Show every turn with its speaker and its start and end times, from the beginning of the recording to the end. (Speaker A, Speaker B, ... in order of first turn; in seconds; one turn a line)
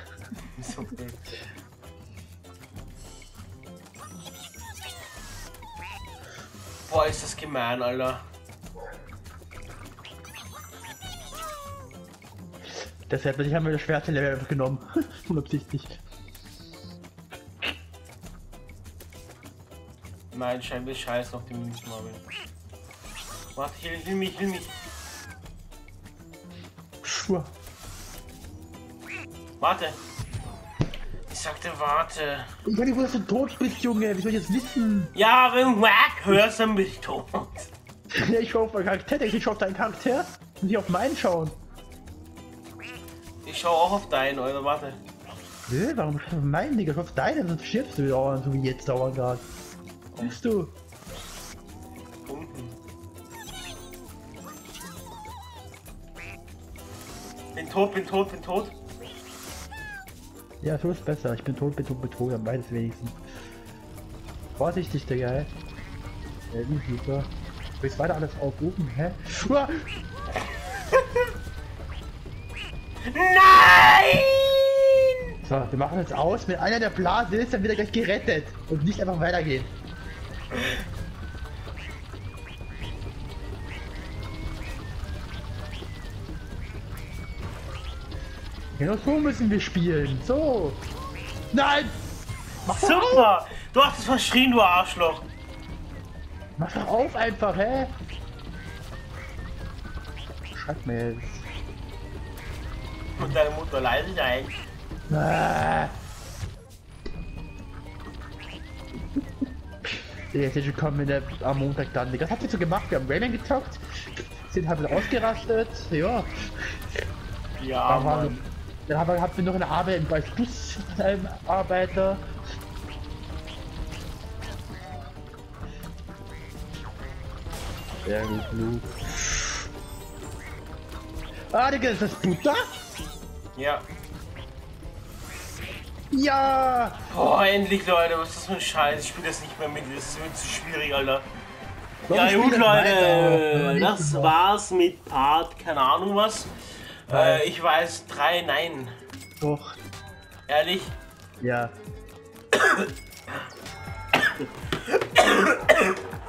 Speaker A: 0.5-1.2
Speaker A: 6.9-8.2
Speaker B: 13.1-16.0
Speaker A: 20.3-22.2
Speaker A: 23.5-24.7
Speaker B: 27.0-27.5
Speaker A: 29.6-30.0
Speaker A: 31.3-32.5
Speaker B: 32.6-35.1
Speaker A: 35.1-37.7
Speaker B: 38.1-41.5
Speaker A: 43.4-45.0
Speaker B: 45.7-49.5
Speaker A: 50.1-50.4
Speaker B: 50.2-50.7
Speaker A: 52.2-52.7
Speaker A: 57.5-58.7
Speaker B: 60.6-63.2
Speaker B: 64.6-65.5
Speaker B: 66.5-69.9
Speaker A: 73.1-74.7
Speaker B: 75.4-79.7
Speaker A: 80.5-80.8
Speaker B: 88.8-90.8
Speaker B: 91.5-91.9
Speaker A: 92.6-95.3
Speaker B: 92.7-93.3
Speaker B: 96.6-97.9
Speaker B: 100.5-101.5
Speaker A: 103.2-104.5
Speaker B: 105.1-105.9
Speaker B: 110.3-116.8
Speaker A: 117.6-118.4
Speaker B: 117.9-122.2
Speaker B: 128.0-129.3
Speaker B: 131.5-132.6
Speaker A: 133.6-133.8
Speaker B: 136.1-137.0
Speaker A: 137.1-141.3
Speaker B: 142.1-144.3
Speaker A: 142.1-146.5
Speaker A: 147.1-148.9
Speaker B: 147.1-147.4
Speaker B: 149.4-149.8
Speaker A: 150.5-150.9
Speaker B: 151.4-151.7
Speaker A: 152.5-152.9
Speaker A: 154.8-155.9